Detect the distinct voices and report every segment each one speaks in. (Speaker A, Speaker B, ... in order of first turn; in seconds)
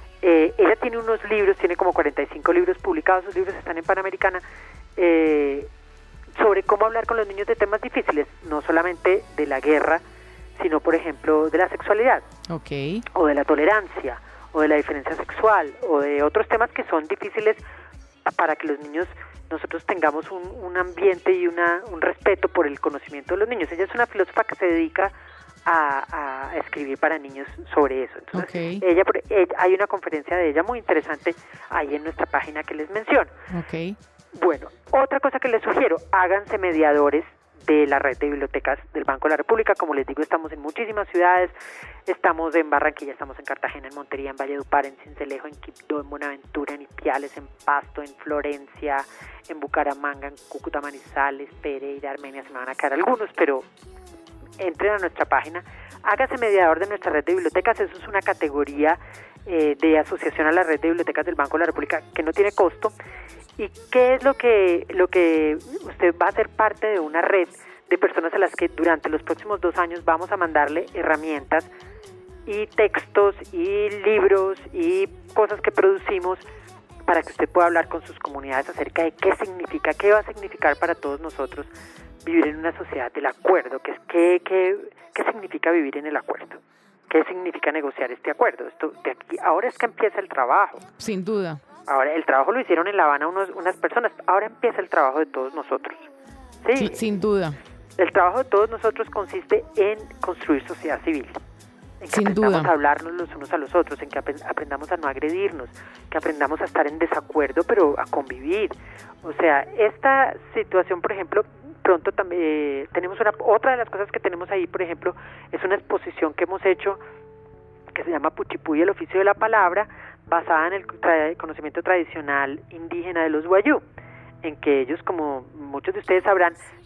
Speaker A: 0.2-4.4, 5.0-5.7, 6.3-10.0, 10.5-12.2, 13.1-17.6, 18.3-25.1, 25.6-33.3, 34.3-41.5, 42.1-53.7, 54.6-62.9, 63.6-71.7, 72.5-76.4, 77.1-81.7, 82.2-90.8, 91.9-96.0, 96.6-97.0, 98.0-101.4, 102.0-117.0, 117.9-123.8, 124.4-126.6
Speaker B: 12.5-13.0, 28.3-28.8, 33.5-34.0, 91.0-91.6, 96.7-97.6, 102.1-102.7